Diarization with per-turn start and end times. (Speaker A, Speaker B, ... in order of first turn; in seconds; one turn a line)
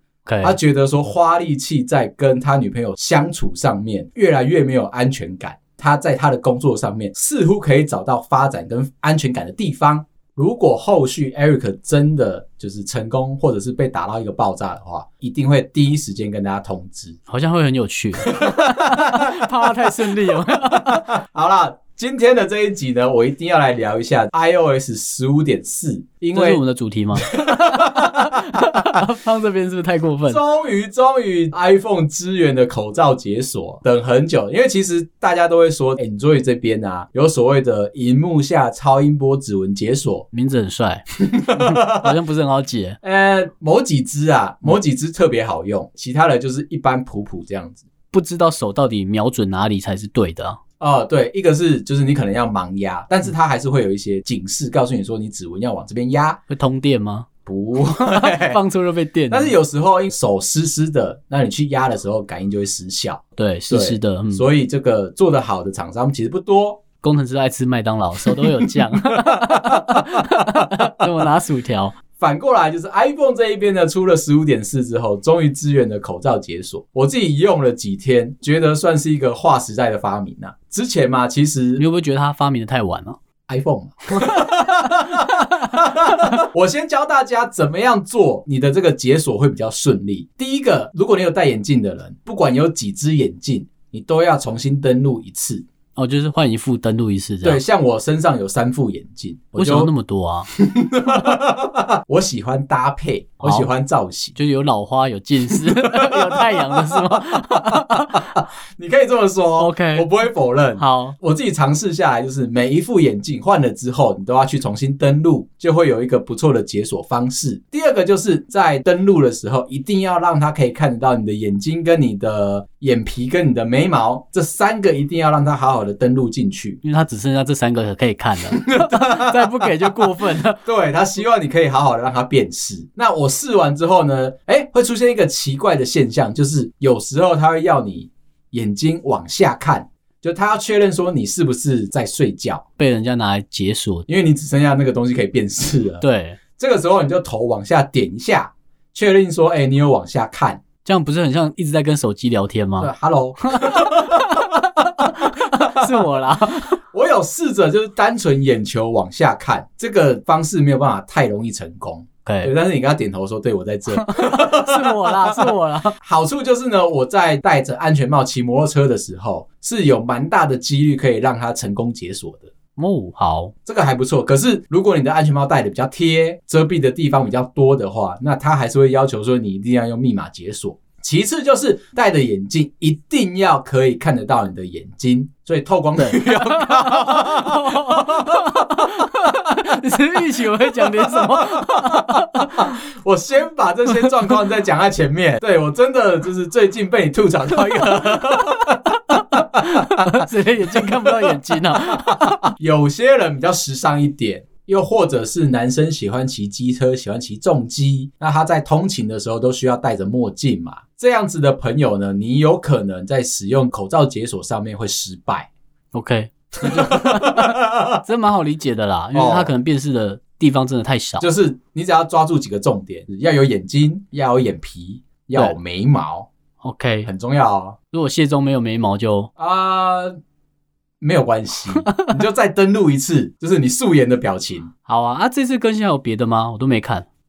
Speaker A: 0.2-0.6
Speaker B: 0.4-17.2
Speaker A: 17.3-21.1
Speaker B: 18.2-26.6
Speaker A: 26.3-30.4
Speaker B: 27.2-29.0
Speaker B: 30.3-40.3
Speaker A: 40.3-43.0
Speaker B: 41.3-42.1
Speaker B: 43.0-47.8
Speaker A: 48.1-50.6
Speaker B: 50.8-56.4
Speaker A: 56.5-59.5
Speaker B: 57.5-58.6
Speaker B: 59.3-66.8
Speaker A: 63.4-64.4
Speaker A: 67.0-72.0
Speaker B: 68.3-70.8
Speaker B: 72.2-81.8
Speaker A: 81.8-83.2
Speaker B: 83.5-95.6
Speaker A: 84.2-84.5
Speaker A: 85.0-85.3
Speaker A: 96.0-97.6
Speaker B: 97.4-99.9
Speaker A: 99.6-100.5
Speaker B: 100.5-104.3
Speaker A: 103.4-103.7
Speaker A: 104.3-108.3
Speaker B: 105.5-126.8
Speaker A: 109.6-110.1
Speaker A: 110.8-111.2
Speaker A: 126.8-130.6
Speaker B: 128.5-130.0
Speaker B: 130.6-142.6
Speaker A: 142.8-144.1
Speaker B: 144.1-146.0
Speaker A: 146.0-146.4
Speaker B: 146.6-150.6
Speaker A: 150.8-152.9
Speaker B: 152.8-154.5
Speaker A: 153.5-156.8
Speaker B: 155.6-156.1
Speaker B: 156.9-172.5
Speaker A: 162.2-162.5
Speaker A: 163.9-165.9
Speaker A: 172.8-173.5
Speaker B: 173.7-189.1
Speaker A: 186.0-192.8
Speaker B: 190.4-215.5
Speaker A: 197.9-198.4
Speaker A: 199.1-202.4
Speaker A: 215.9-221.3
Speaker B: 216.6-218.0
Speaker B: 219.1-219.5
Speaker B: 221.2-226.3
Speaker A: 226.6-227.1
Speaker B: 227.1-227.8
Speaker A: 227.9-229.3
Speaker B: 229.4-230.2
Speaker B: 231.0-234.7
Speaker A: 234.8-237.1